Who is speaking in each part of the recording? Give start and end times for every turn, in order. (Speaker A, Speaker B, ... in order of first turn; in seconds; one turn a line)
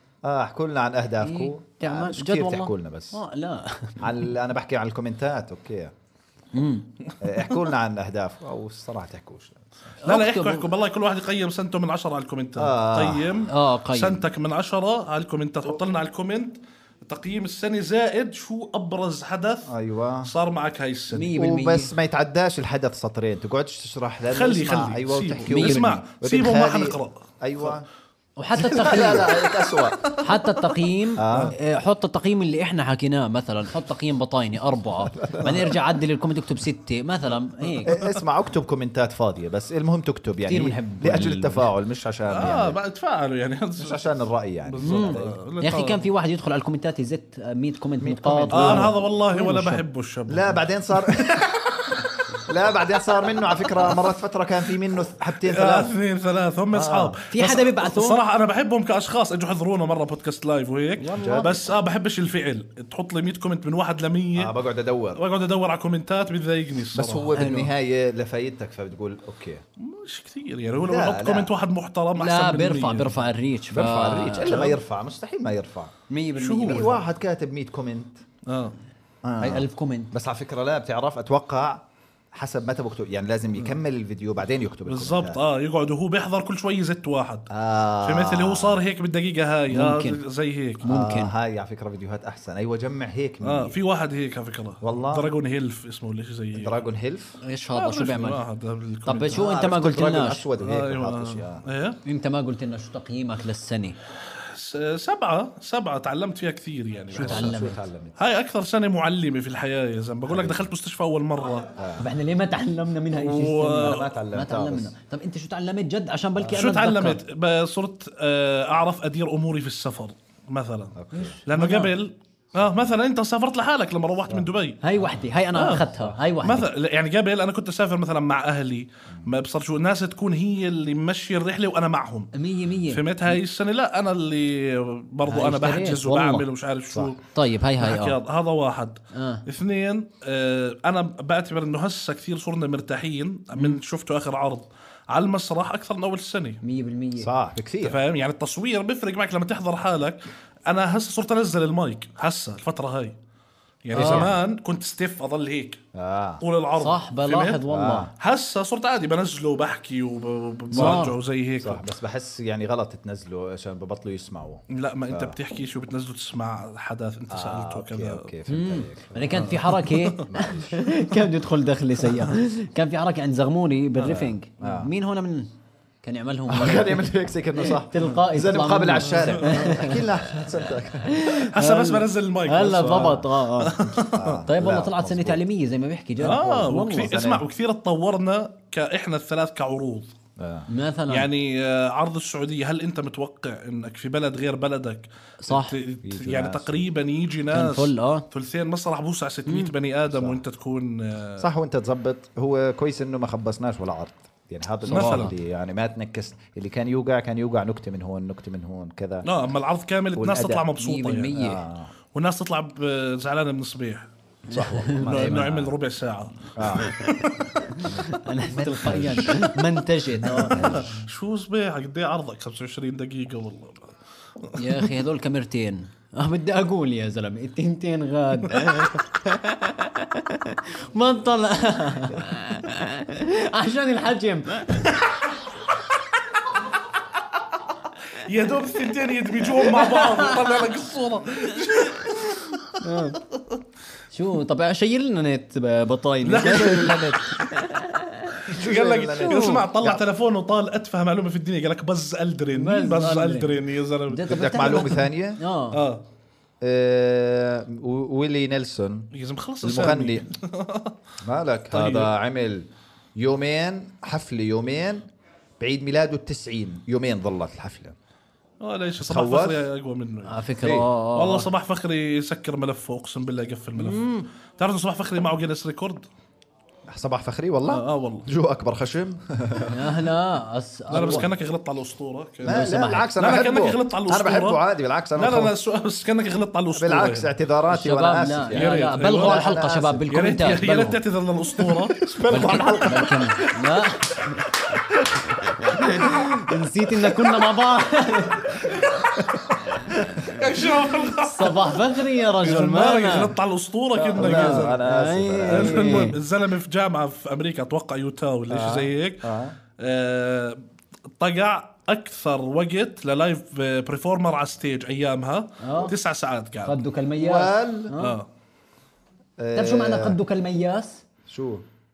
Speaker A: 0.2-3.2
Speaker B: 1.2-4.0
Speaker A: 4.0-5.9
Speaker B: 6.5-6.9
Speaker A: 7.2-9.7
Speaker B: 10.0-10.7
Speaker C: 10.0-21.3
Speaker A: 12.6-13.4
Speaker B: 13.5-14.2
Speaker A: 19.7-20.3
Speaker B: 21.1-21.9
Speaker A: 21.4-27.9
Speaker C: 24.3-27.8
Speaker B: 25.5-25.9
Speaker B: 28.4-29.4
Speaker A: 28.6-30.0
Speaker C: 28.7-29.2
Speaker B: 30.1-38.0
Speaker A: 31.2-31.6
Speaker C: 31.3-31.6
Speaker A: 35.2-35.8
Speaker C: 37.6-38.2
Speaker A: 37.9-42.8
Speaker B: 40.5-41.7
Speaker C: 42.3-44.0
Speaker A: 43.8-45.4
Speaker C: 44.6-46.0
Speaker B: 44.8-49.8
Speaker A: 48.0-49.0
Speaker C: 48.5-52.1
Speaker A: 50.3-51.5
Speaker A: 52.5-55.9
Speaker C: 55.5-64.5
Speaker A: 56.7-57.2
Speaker B: 57.3-58.2
Speaker A: 61.0-61.7
Speaker A: 64.3-65.2
Speaker C: 65.2-67.3
Speaker A: 66.9-69.6
Speaker B: 67.3-67.7
Speaker C: 69.8-73.2
Speaker A: 70.8-71.5
Speaker B: 72.2-74.7
Speaker A: 73.7-75.9
Speaker B: 76.1-77.0
Speaker C: 76.4-77.0
Speaker A: 76.6-78.2
Speaker C: 78.5-78.8
Speaker A: 79.2-85.4
Speaker B: 79.4-80.1
Speaker C: 84.9-87.5
Speaker A: 87.5-88.8
Speaker C: 88.0-90.9
Speaker B: 89.7-90.2
Speaker B: 90.8-91.3
Speaker A: 90.8-93.8
Speaker C: 93.4-96.8
Speaker A: 94.8-95.3
Speaker A: 96.5-97.4
Speaker B: 97.4-98.4
Speaker C: 97.7-99.4
Speaker B: 99.1-100.5
Speaker A: 99.3-101.7
Speaker C: 100.6-102.0
Speaker B: 102.0-104.0
Speaker C: 104.4-107.6
Speaker A: 107.1-108.2
Speaker B: 107.1-107.8
Speaker C: 108.2-111.7
Speaker A: 110.3-110.7
Speaker A: 111.8-112.1
Speaker B: 112.0-117.2
Speaker C: 113.1-114.1
Speaker A: 113.8-114.9
Speaker C: 116.5-124.8
Speaker A: 121.0-121.4
Speaker B: 121.2-121.9
Speaker A: 124.3-125.2
Speaker B: 124.8-126.7
Speaker C: 125.5-125.9
Speaker A: 125.9-126.2
Speaker C: 126.4-132.3
Speaker B: 132.3-133.0
Speaker C: 132.9-137.2
Speaker B: 135.3-136.5
Speaker B: 137.3-138.2
Speaker C: 137.8-146.6
Speaker B: 139.1-139.4
Speaker B: 146.6-147.3
Speaker A: 147.2-148.0
Speaker C: 147.8-153.2
Speaker C: 153.8-155.8
Speaker A: 153.9-154.4
Speaker B: 153.9-154.3
Speaker A: 155.9-156.4
Speaker C: 156.4-157.6
Speaker B: 156.8-158.1
Speaker A: 157.7-158.1
Speaker C: 158.2-161.9
Speaker B: 160.7-161.2
Speaker A: 160.7-165.3
Speaker C: 164.7-168.3
Speaker A: 167.3-169.6
Speaker B: 168.5-175.5
Speaker C: 169.4-170.2
Speaker A: 170.3-170.9
Speaker C: 174.0-174.3
Speaker A: 174.6-174.9
Speaker B: 176.0-177.1
Speaker A: 176.5-181.3
Speaker B: 177.6-180.0
Speaker C: 179.0-179.8
Speaker B: 181.1-183.8
Speaker C: 181.4-184.4
Speaker A: 182.8-183.3
Speaker A: 183.9-185.4
Speaker B: 184.5-187.2
Speaker C: 186.2-190.1
Speaker A: 187.1-187.4
Speaker A: 190.4-190.7
Speaker B: 190.7-191.3
Speaker C: 191.1-201.5
Speaker B: 195.4-195.8
Speaker A: 196.0-196.8
Speaker B: 197.5-198.3
Speaker A: 200.1-200.4
Speaker A: 201.4-209.3
Speaker C: 204.9-205.3
Speaker B: 204.9-205.3
Speaker C: 209.2-211.4
Speaker A: 210.2-210.7
Speaker B: 210.8-211.6
Speaker A: 211.3-211.9
Speaker C: 212.1-214.1
Speaker A: 214.5-215.7
Speaker B: 214.5-215.3
Speaker C: 214.9-216.9
Speaker A: 216.6-217.0
Speaker B: 216.8-220.9
Speaker A: 217.8-219.6
Speaker A: 220.2-221.1
Speaker C: 220.5-223.9
Speaker C: 224.4-224.9
Speaker B: 224.6-235.0
Speaker C: 238.1-242.8
Speaker B: 239.8-240.4
Speaker B: 242.8-243.2
Speaker B: 244.1-247.9
Speaker C: 246.2-247.1
Speaker A: 246.4-247.3
Speaker C: 248.4-255.0
Speaker A: 248.5-250.0
Speaker B: 249.2-249.7
Speaker B: 252.5-253.5
Speaker B: 254.1-255.8
Speaker A: 254.3-255.4
Speaker C: 255.7-256.0
Speaker A: 256.6-259.1
Speaker C: 259.1-261.0
Speaker A: 259.6-260.3
Speaker A: 261.2-265.0
Speaker C: 261.7-262.1
Speaker A: 265.6-268.0
Speaker C: 268.6-276.1
Speaker A: 269.0-269.7
Speaker B: 270.3-271.5
Speaker B: 273.8-274.3
Speaker A: 276.9-279.9
Speaker C: 277.7-278.3
Speaker B: 279.7-281.3
Speaker C: 280.9-284.6
Speaker A: 280.9-281.3
Speaker A: 282.4-285.5
Speaker B: 282.4-283.1
Speaker C: 285.2-287.3
Speaker A: 286.8-290.1
Speaker B: 287.7-291.0
Speaker C: 288.5-289.5
Speaker C: 290.1-293.1
Speaker A: 291.6-293.6
Speaker B: 292.3-294.4
Speaker B: 295.7-298.8
Speaker A: 299.8-300.3
Speaker C: 300.2-304.9
Speaker B: 301.2-303.4
Speaker A: 304.0-306.1
Speaker B: 304.2-306.2
Speaker C: 305.5-310.6
Speaker A: 308.5-309.6
Speaker C: 311.2-316.8
Speaker B: 315.6-315.9
Speaker B: 316.6-318.2
Speaker A: 317.1-317.9
Speaker C: 318.0-318.3
Speaker A: 319.4-320.2
Speaker B: 319.5-321.0
Speaker A: 321.3-321.6